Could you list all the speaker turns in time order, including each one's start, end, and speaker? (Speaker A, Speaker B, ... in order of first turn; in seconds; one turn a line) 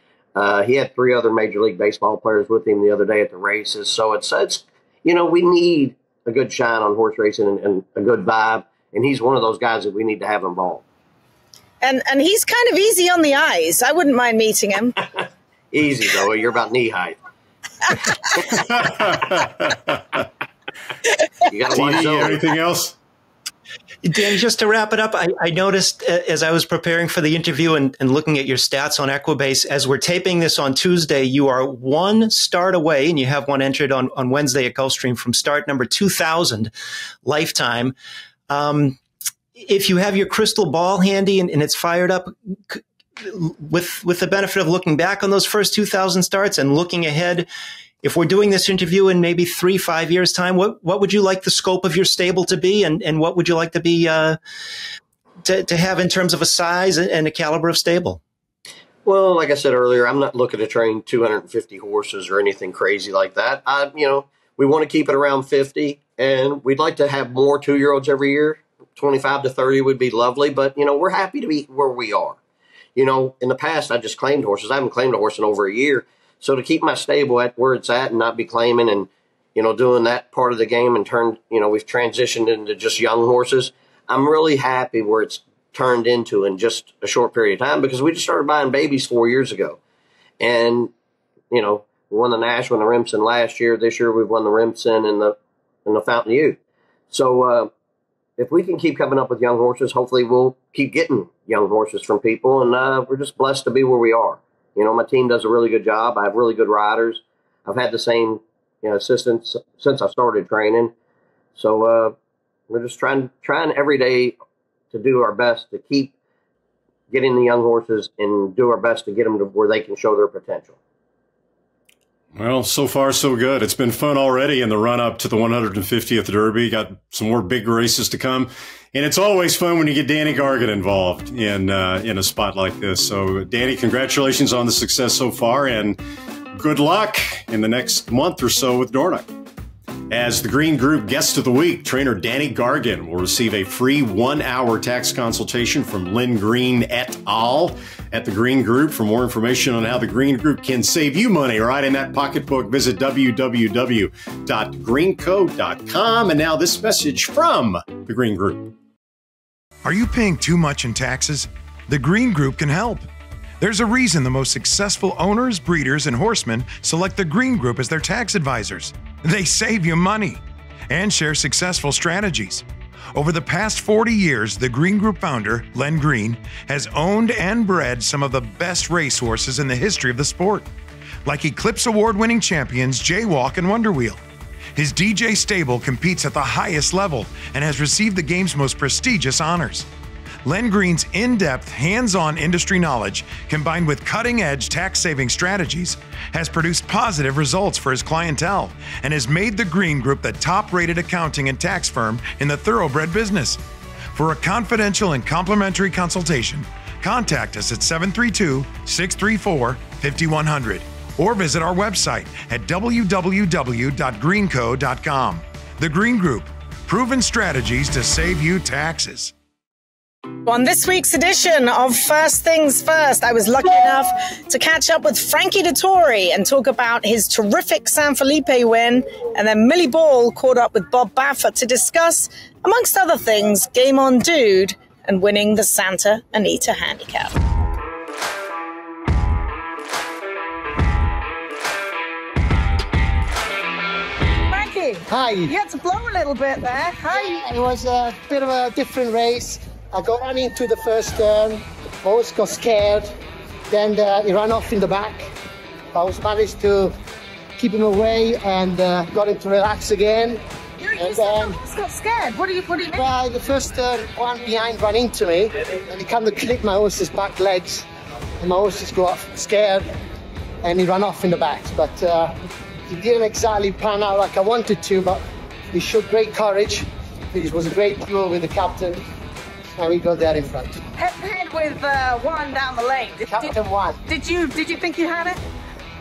Speaker A: 0.3-10.8
Speaker B: 11.8-15.0
Speaker A: 15.7-17.2
Speaker C: 18.4-20.0
Speaker A: 21.5-22.5
Speaker C: 21.7-22.9
Speaker D: 24.0-36.7
Speaker D: 37.2-38.0
Speaker D: 38.5-39.0
Speaker D: 39.5-47.5
Speaker D: 48.0-54.4
Speaker D: 55.4-58.2
Speaker A: 59.0-72.4
Speaker A: 73.0-89.8
Speaker A: 90.4-90.9
Speaker A: 91.5-96.6
Speaker A: 97.1-97.7
Speaker A: 98.4-110.9
Speaker A: 111.6-112.2
Speaker A: 112.7-114.4
Speaker A: 114.9-116.1
Speaker A: 117.1-120.8
Speaker C: 122.4-136.0
Speaker C: 136.6-139.3
Speaker C: 140.1-158.7
Speaker E: 159.8-163.1
Speaker E: 163.6-180.7
Speaker E: 181.2-184.2
Speaker E: 184.8-189.9
Speaker E: 190.4-203.6
Speaker E: 204.1-219.3
Speaker B: 220.5-237.3
Speaker B: 244.5-247.4
Speaker F: 245.1-245.5
Speaker F: 247.1-253.1
Speaker F: 253.7-255.3
Speaker F: 255.9-256.9
Speaker F: 257.6-260.4
Speaker B: 260.8-263.1
Speaker F: 261.0-261.6
Speaker F: 262.9-267.9
Speaker F: 268.4-269.9
Speaker F: 270.6-272.4
Speaker F: 272.9-279.0
Speaker F: 279.8-280.8
Speaker B: 281.0-283.5
Speaker F: 283.3-284.0
Speaker B: 284.1-285.4